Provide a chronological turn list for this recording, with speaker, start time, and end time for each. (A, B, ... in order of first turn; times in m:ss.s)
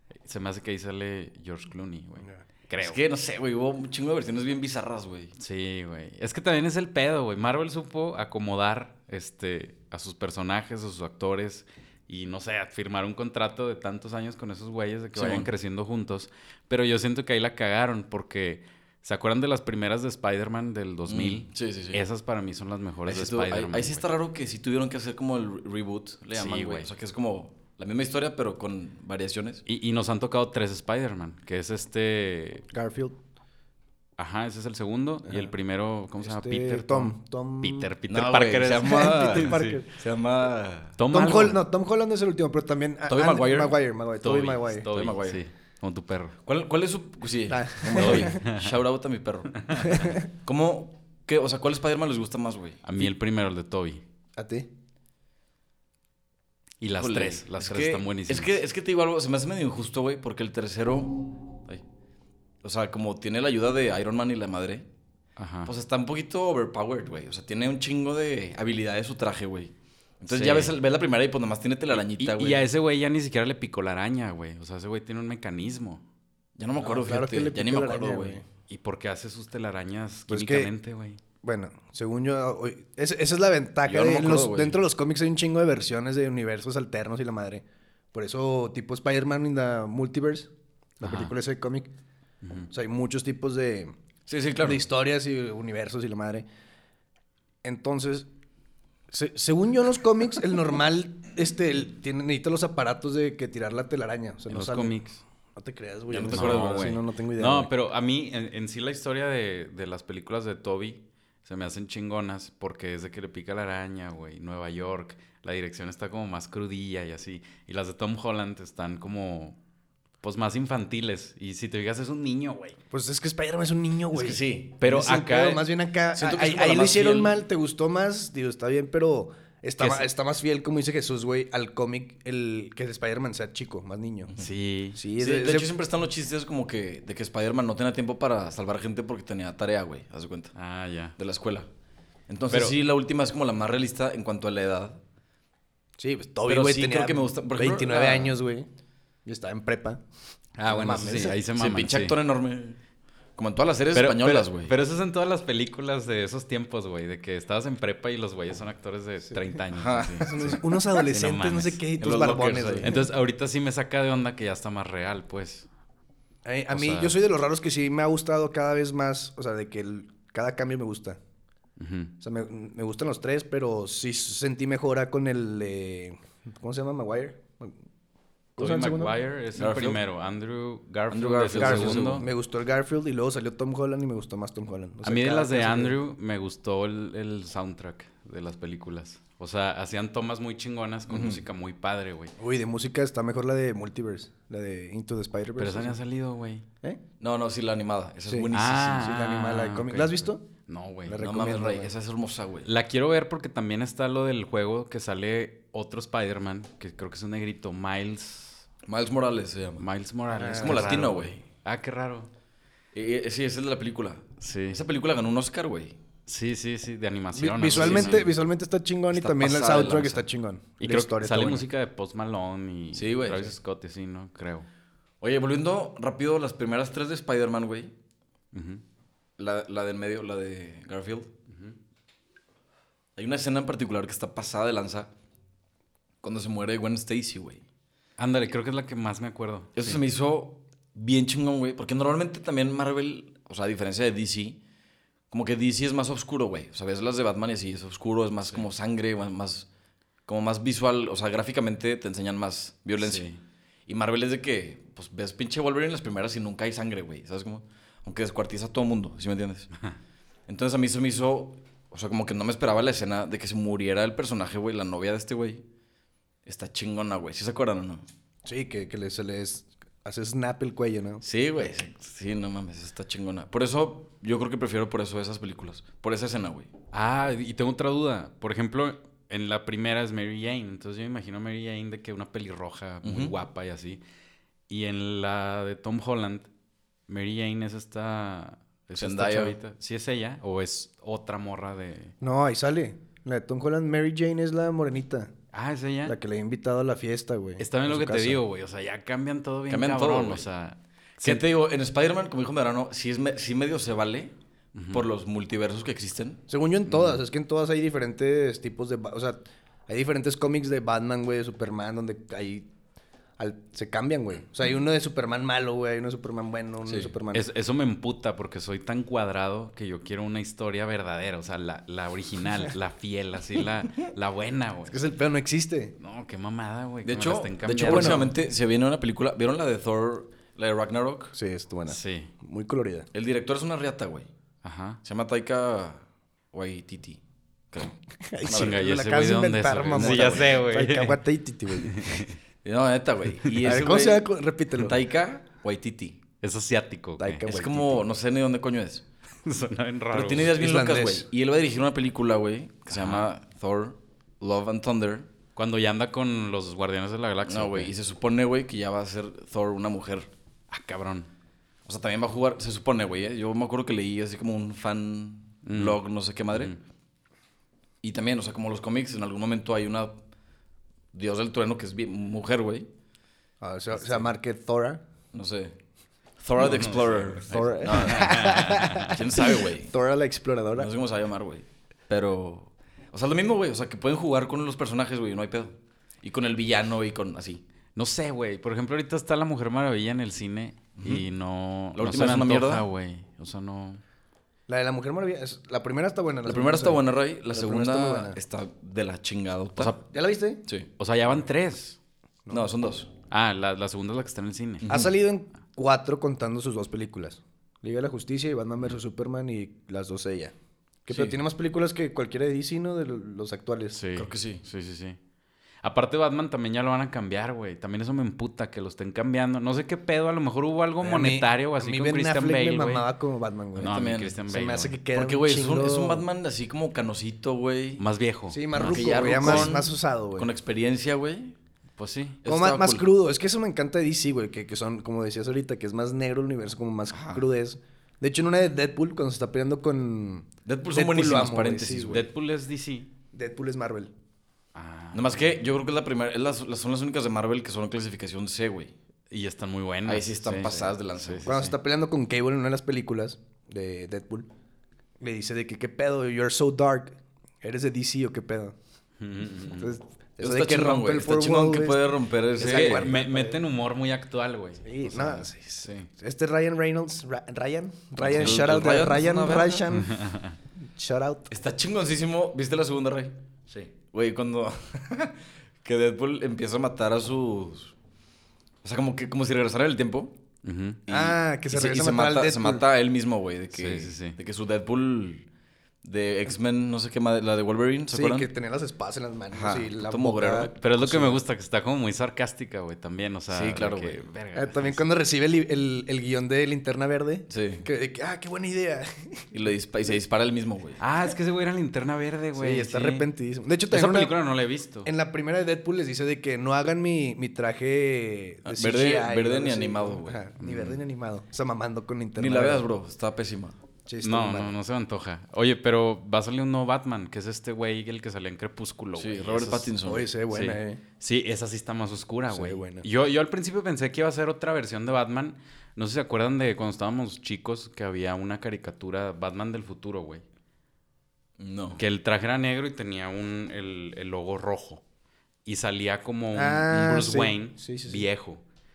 0:00.2-0:03.0 A
0:02.8-0:05.3 B
0:05.4-0:24.0 A
0:15.1-0:15.5 B
0:21.1-0:22.0 B
0:23.0-0:29.6 B
0:26.3-0:26.9 A
0:29.7-0:32.7 A
0:32.7-0:33.2 C
0:34.2-0:39.8 A
0:35.2-0:35.5 C
0:36.2-0:37.9 C
0:38.1-0:41.0 B
0:38.8-0:39.9 C
0:41.0-0:41.6 A
0:41.1-0:44.9 C
0:43.1-0:43.8 B
0:44.2-0:46.4 A
0:44.9-0:45.4 B
0:46.4-0:52.8 B
0:47.5-0:48.4 C
0:48.0-0:48.8 A
0:49.5-0:50.1 A
0:49.8-0:50.2 C
0:52.8-0:54.0 A
0:54.4-0:54.7 C
0:56.8-0:58.6 A
0:57.0-1:01.8 B
1:02.6-1:04.9 B
1:05.4-1:05.7 A
1:05.6-1:12.6 B
1:10.3-1:10.7 A
1:12.1-1:16.0 A
1:16.6-1:18.4 B
1:16.8-1:18.4 C
1:18.7-1:21.2 A
1:20.3-1:20.7 C
1:21.4-1:31.9 C
1:23.8-1:24.8 B
1:31.0-1:31.3 A
1:32.7-1:33.9 C
1:34.3-1:34.8 B
1:34.6-1:36.5 C
1:37.6-1:38.3 C
1:39.1-1:45.0 C
1:44.5-1:45.2 A
1:45.5-1:47.7 C
1:46.1-1:47.0 B
1:46.2-1:59.6 A
2:00.2-2:02.8 A
2:02.9-2:14.3 C
2:04.1-2:04.8 B
2:04.8-2:05.6 A
2:06.1-2:07.4 B
2:09.8-2:10.1 A
2:14.4-2:15.0 A
2:14.9-2:15.7 C
2:15.2-2:20.5 B
2:20.5-2:21.2 A
2:21.2-2:21.7 B
2:22.3-2:25.0 B
2:26.0-2:28.7 C
2:26.4-2:28.4 B
2:29.2-2:30.0 C
2:30.6-2:32.2 A
2:30.6-2:31.4 C
2:31.5-2:32.8 B
2:33.4-2:34.7 B
2:33.9-2:41.8 A
2:39.7-2:40.6 B
2:40.1-2:43.1 C
2:42.0-2:43.0 B
2:42.8-2:45.7 A
2:46.4-2:51.2 C
2:46.7-2:47.2 A
2:51.8-2:52.1 A
2:52.2-2:57.7 C
2:58.6-2:59.1 C
2:58.6-3:02.2 A
2:59.5-3:00.0 B
3:01.1-3:02.3 B
3:01.6-3:06.0 C
3:05.0-3:12.3 A
3:11.1-3:11.4 B
3:12.4-3:16.0 C
3:15.6-3:16.6 A
3:17.2-3:19.0 B
3:18.3-3:20.4 C
3:18.5-3:21.2 A
3:21.0-3:21.9 C
3:21.2-3:22.7 B
3:22.6-3:28.6 A
3:28.8-3:29.8 B
3:29.8-3:32.3 A
3:30.3-3:31.0 C
3:30.6-3:31.4 B
3:32.9-3:36.0 B
3:34.4-3:34.8 A
3:36.3-3:38.3 A
3:37.3-3:41.6 C
3:37.7-3:38.2 B
3:39.1-3:40.3 B
3:40.8-3:44.7 A
3:42.9-3:43.5 B
3:45.2-3:47.9 B
3:48.5-3:48.8 A
3:49.4-3:51.3 B
3:51.5-3:51.8 A
3:53.2-3:55.1 B
3:56.2-3:57.6 B
3:58.2-4:00.0 A
3:59.7-4:04.6 B
4:05.3-4:09.7 B
4:10.2-4:13.2 B
4:13.0-4:13.4 A
4:13.9-4:19.7 B
4:20.5-4:25.6 B
4:26.4-4:28.0 B
4:28.4-4:31.2 C
4:31.2-4:36.7 B
4:36.9-4:44.0 A
4:43.0-4:43.3 B
4:44.7-4:46.5 A
4:47.1-4:52.1 A
4:49.0-4:49.6 B
4:52.2-4:55.3 C
4:55.5-4:56.2 A
4:56.0-4:58.4 C
4:57.6-5:01.4 A
4:59.7-5:00.4 B
5:01.2-5:04.3 B
5:04.7-5:05.0 A
5:04.9-5:07.1 B
5:06.5-5:12.7 C
5:13.4-5:17.5 C
5:16.8-5:17.1 B
5:17.3-5:25.0 A
5:24.9-5:25.9 C
5:26.0-5:28.3 A
5:27.0-5:31.3 B
5:27.8-5:28.2 C
5:31.3-5:33.1 C
5:31.9-5:32.3 A
5:33.1-5:34.3 B
5:34.6-5:35.0 A
5:35.0-5:38.8 B
5:38.1-5:42.2 C
5:38.4-5:41.2 A
5:39.9-5:40.5 B
5:41.7-5:42.4 A
5:42.6-5:46.2 B
5:43.6-5:45.0 C
5:46.4-5:47.5 A
5:47.2-5:48.0 C
5:47.4-5:49.0 B
5:49.4-5:50.5 A
5:50.1-5:55.3 B
5:50.4-5:51.3 C
5:52.9-5:53.3 A
5:55.6-5:57.9 A
5:57.4-6:00.3 B
6:00.7-6:01.3 A
6:01.8-6:06.8 B
6:05.6-6:06.0 A
6:06.5-6:06.8 A
6:08.0-6:10.2 B
6:11.1-6:12.9 B
6:13.6-6:15.0 C
6:13.9-6:14.2 B
6:15.3-6:15.8 B
6:16.4-6:19.9 B
6:16.6-6:19.2 A
6:17.5-6:20.9 C
6:20.7-6:27.6 B
6:28.0-6:34.0 A
6:31.0-6:31.2 B
6:31.9-6:32.8 B
6:34.7-6:38.4 C
6:36.4-6:40.0 B
6:39.8-6:40.0 A
6:40.1-6:40.6 C
6:41.0-6:42.0 A
6:42.5-6:43.1 B
6:43.3-6:44.9 A
6:44.8-6:45.1 B
6:44.9-6:50.5 C
6:51.0-6:54.0 C
6:53.9-6:55.2 A
6:54.1-6:54.6 B
6:55.8-7:03.0 A
7:01.0-7:06.2 C
7:03.8-7:04.4 B
7:03.8-7:04.9 A
7:05.1-7:08.0 B
7:08.0-7:09.8 A
7:08.5-7:10.5 C
7:08.7-7:11.5 B
7:12.0-7:12.4 A
7:12.4-7:13.1 B
7:12.4-7:22.2 C
7:17.1-7:17.4 B
7:20.6-7:22.3 B
7:22.1-7:23.1 A
7:23.3-7:24.1 C
7:24.7-7:25.6 A
7:25.1-7:28.9 B
7:29.3-7:31.8 A
7:30.0-7:31.5 B
7:31.4-7:34.5 C
7:35.2-7:38.8 C
7:39.2-7:39.9 A
7:39.7-7:43.6 C
7:40.4-7:43.2 B
7:42.6-7:46.1 A
7:44.8-7:50.2 C
7:48.2-7:49.9 B
7:49.9-7:50.6 A
7:50.8-7:51.5 C
7:51.5-7:53.4 B
7:54.1-7:57.9 B
7:58.8-8:00.3 B
8:00.6-8:01.0 A
8:01.0-8:05.5 B
8:01.1-8:02.8 C
8:03.7-8:04.4 A
8:06.0-8:08.5 B
8:08.1-8:11.4 C
8:09.5-8:10.8 B
8:10.8-8:15.0 A
8:13.5-8:14.3 B
8:14.5-8:19.4 C
8:17.5-8:17.9 B
8:19.5-8:21.0 B
8:21.0-8:23.3 A
8:22.5-8:24.4 C
8:23.9-8:25.1 A
8:25.0-8:32.9 C
8:28.7-8:30.4 B
8:30.6-8:31.0 A
8:32.4-8:33.8 B
8:34.0-8:34.8 C
8:34.2-8:39.9 A
8:39.2-8:40.3 B
8:40.0-8:41.0 C
8:40.5-8:50.4 A
8:42.5-8:43.0 C
8:51.6-8:52.0 B
8:52.0-8:55.0 A
8:55.6-8:58.6 A
8:56.5-8:58.3 C